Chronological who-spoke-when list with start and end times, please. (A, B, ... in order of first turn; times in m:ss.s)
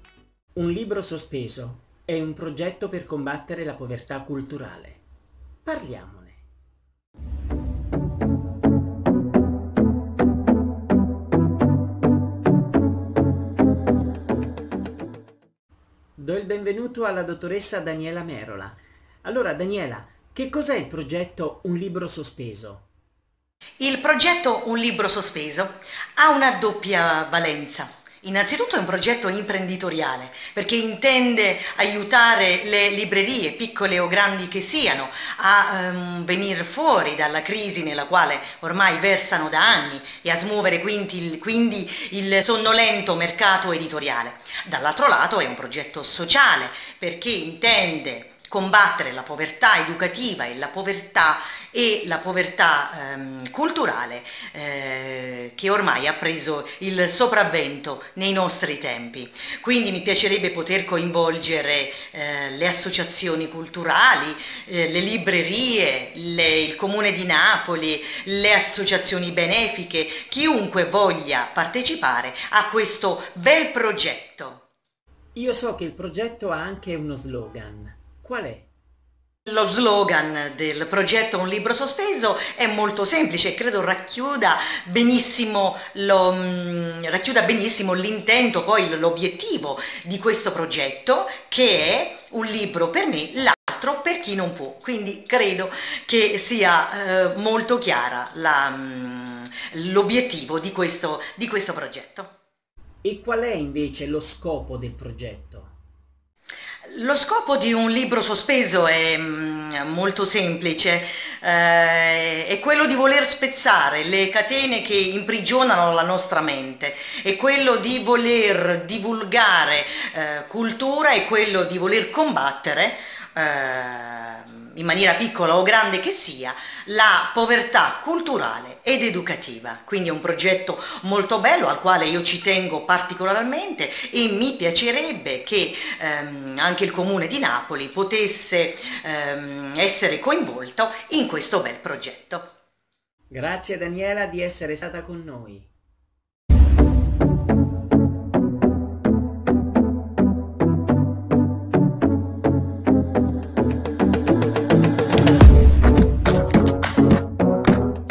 0:00.5-0:05.0 A
0:05.6-0:06.4 A
0:16.2-0:22.8 A
0:23.8-1:14.6 B
1:15.3-1:18.7 A
1:19.4-1:42.3 B
1:43.0-1:45.7 A
1:46.8-2:22.5 B
2:23.3-2:25.7 A